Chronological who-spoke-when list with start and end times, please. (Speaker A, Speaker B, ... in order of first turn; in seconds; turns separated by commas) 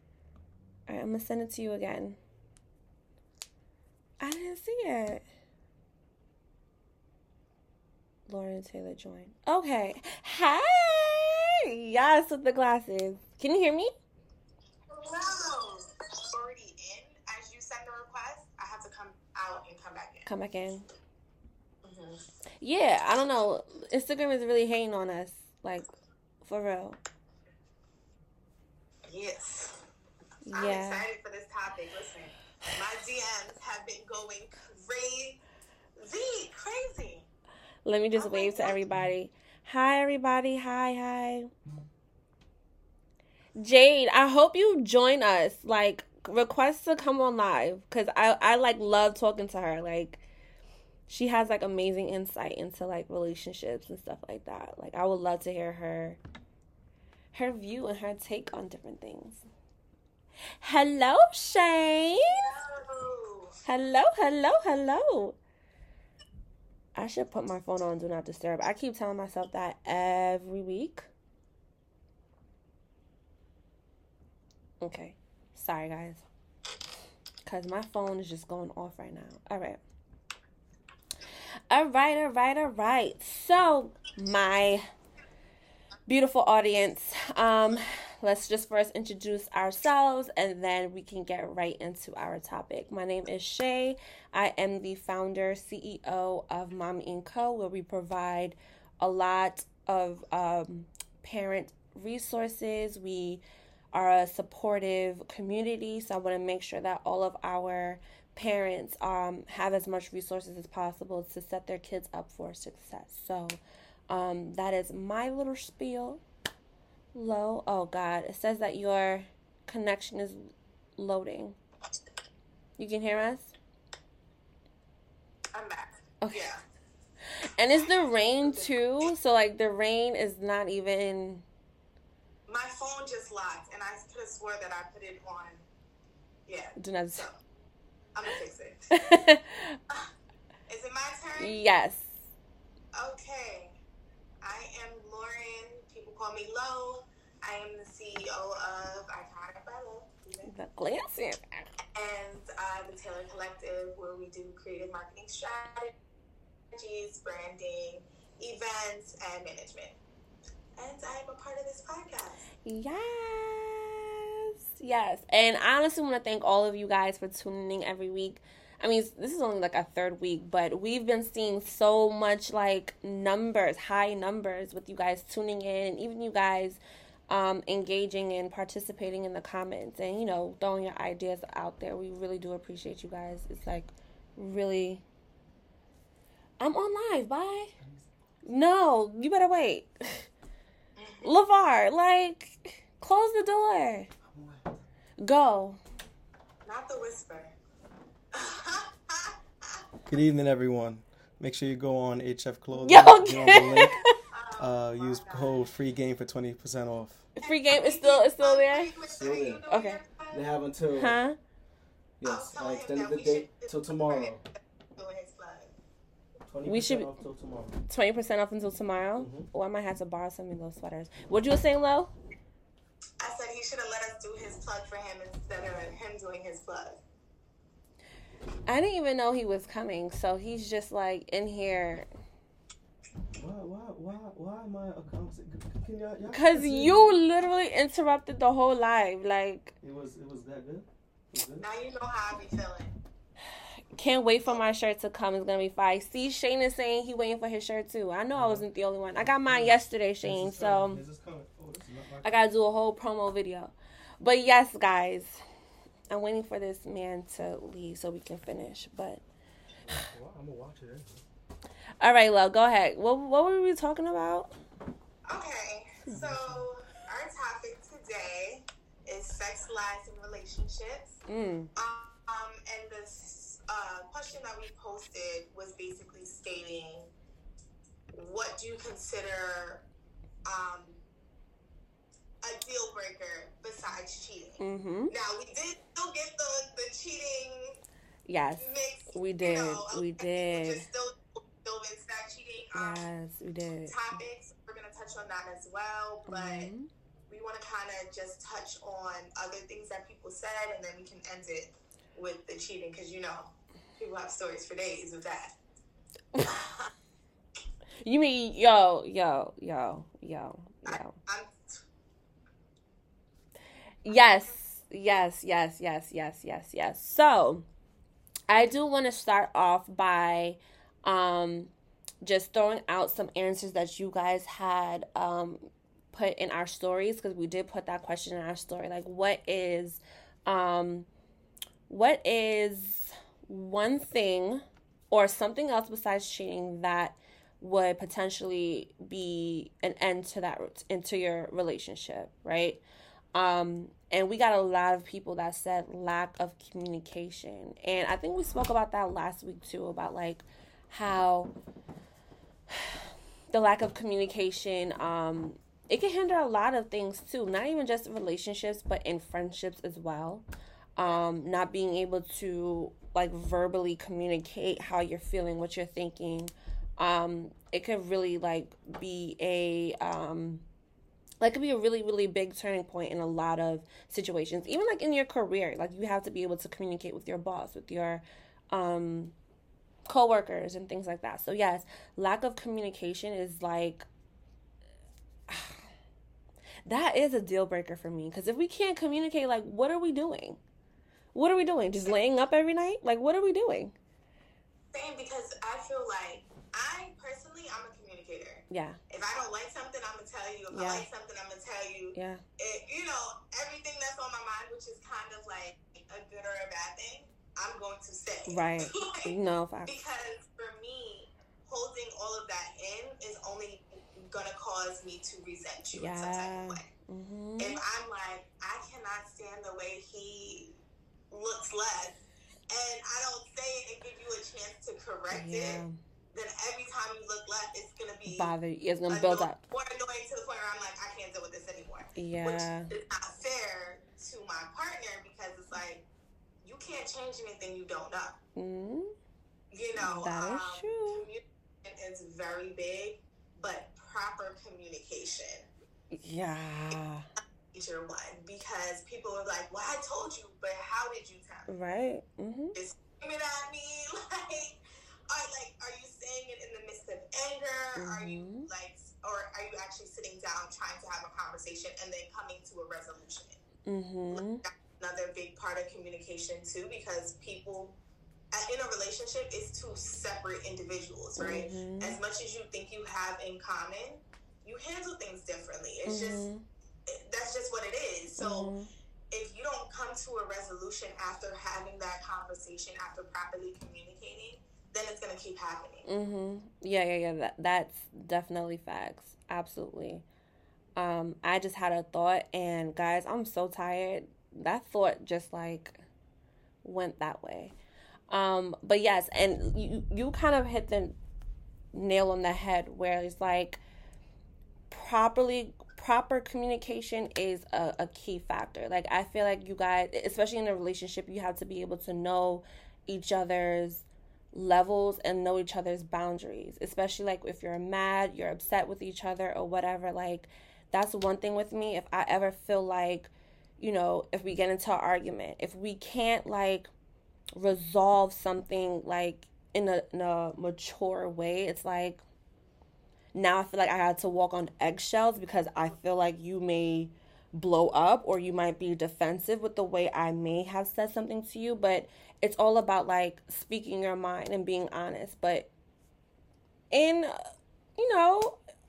Speaker A: 0.9-2.2, Speaker A: 4.2-5.2, Speaker A: 8.3-13.9, Speaker B: 14.9-20.3, Speaker A: 20.2-20.9, Speaker B: 21.8-22.2, Speaker A: 22.6-25.9, Speaker A: 26.4-27.0, Speaker B: 29.1-29.8, Speaker A: 30.4-31.1, Speaker B: 30.5-35.4, Speaker B: 36.0-37.3, Speaker A: 37.8-41.5, Speaker B: 38.1-38.8, Speaker A: 43.6-50.2, Speaker A: 51.1-56.2, Speaker A: 57.3-59.4, Speaker A: 60.6-62.5, Speaker B: 62.4-63.5, Speaker A: 63.6-65.4, Speaker A: 67.0-71.1, Speaker A: 74.8-76.2, Speaker A: 77.5-79.8, Speaker A: 81.7-84.8, Speaker A: 86.1-103.4, Speaker A: 103.9-113.6, Speaker A: 114.1-116.2, Speaker A: 117.1-121.6, Speaker A: 122.8-123.5, Speaker B: 125.5-126.6, Speaker A: 126.2-126.5, Speaker A: 127.4-131.4, Speaker B: 127.8-129.1, Speaker B: 132.5-135.7, Speaker B: 136.5-137.4, Speaker A: 136.8-137.3, Speaker B: 138.1-138.8, Speaker A: 138.9-139.8, Speaker B: 140.7-141.6, Speaker A: 141.4-142.2, Speaker B: 142.9-143.7, Speaker B: 144.4-150.5, Speaker A: 150.4-151.6, Speaker B: 151.9-155.9, Speaker B: 156.7-160.0, Speaker B: 160.8-162.4, Speaker A: 162.6-185.0, Speaker A: 186.6-187.7, Speaker A: 188.4-190.3, Speaker B: 191.0-191.3, Speaker A: 191.2-194.1, Speaker C: 194.3-194.7, Speaker A: 195.2-195.8, Speaker B: 196.6-197.6, Speaker B: 198.3-199.8, Speaker C: 200.1-204.0, Speaker A: 202.8-204.1, Speaker B: 203.5-205.6, Speaker C: 204.6-207.3, Speaker A: 207.4-208.9, Speaker B: 207.4-210.5, Speaker C: 209.1-209.6, Speaker A: 209.7-210.0, Speaker C: 210.3-211.2, Speaker A: 210.9-211.4, Speaker C: 212.2-214.4, Speaker B: 212.2-215.7, Speaker C: 216.5-217.8, Speaker A: 216.7-217.1, Speaker A: 217.9-222.1, Speaker C: 219.2-219.5, Speaker B: 223.2-227.0, Speaker A: 228.7-232.1, Speaker C: 233.4-237.2, Speaker A: 236.3-239.7, Speaker C: 239.8-241.7, Speaker B: 241.6-243.0, Speaker A: 243.9-251.0, Speaker C: 248.3-248.6, Speaker C: 249.4-252.5, Speaker A: 252.2-255.4, Speaker A: 256.1-259.2, Speaker C: 259.9-261.2, Speaker A: 262.0-264.6, Speaker B: 265.2-271.2, Speaker C: 266.1-266.7, Speaker A: 271.3-271.7, Speaker B: 271.7-277.1, Speaker B: 278.1-279.8, Speaker B: 280.4-281.0, Speaker B: 282.4-287.8, Speaker A: 284.6-285.1, Speaker A: 288.3-290.9, Speaker B: 288.6-293.0, Speaker A: 292.7-294.0, Speaker B: 293.9-296.7, Speaker A: 296.3-296.9, Speaker B: 297.3-305.6, Speaker B: 306.4-306.9, Speaker A: 308.0-311.2, Speaker B: 310.8-311.8, Speaker A: 314.0-317.6, Speaker A: 318.5-321.7, Speaker A: 322.2-331.1, Speaker A: 331.9-342.8, Speaker A: 343.3-351.5, Speaker A: 353.5-360.4, Speaker A: 361.0-370.6, Speaker A: 371.4-379.3, Speaker A: 380.1-384.1, Speaker A: 385.5-385.8, Speaker A: 386.9-390.6, Speaker A: 391.3-393.9, Speaker B: 394.9-409.3, Speaker A: 398.7-399.0, Speaker A: 400.7-401.1, Speaker A: 402.1-402.4, Speaker A: 408.5-409.9, Speaker B: 409.8-416.9, Speaker A: 415.9-417.8, Speaker B: 417.6-420.8, Speaker B: 421.3-428.5, Speaker A: 425.3-425.9, Speaker A: 428.3-429.6, Speaker B: 429.1-436.1, Speaker A: 432.1-432.9, Speaker B: 436.6-438.4, Speaker A: 438.6-439.1, Speaker B: 439.7-445.7, Speaker A: 440.0-441.3, Speaker A: 446.1-447.3, Speaker B: 447.7-451.7, Speaker A: 451.7-452.8, Speaker B: 452.7-454.8, Speaker B: 455.3-463.6, Speaker A: 457.9-458.7, Speaker A: 463.9-464.6, Speaker B: 464.3-468.0, Speaker B: 468.5-476.5, Speaker A: 471.4-472.2, Speaker A: 476.0-476.6, Speaker B: 477.1-478.7, Speaker A: 478.4-478.9, Speaker B: 479.3-486.1, Speaker A: 486.1-490.2, Speaker A: 490.9-496.0, Speaker A: 496.8-497.7, Speaker A: 498.3-501.2, Speaker A: 501.9-503.8, Speaker A: 504.9-526.9, Speaker A: 527.5-532.2, Speaker A: 533.3-545.7, Speaker A: 546.9-548.6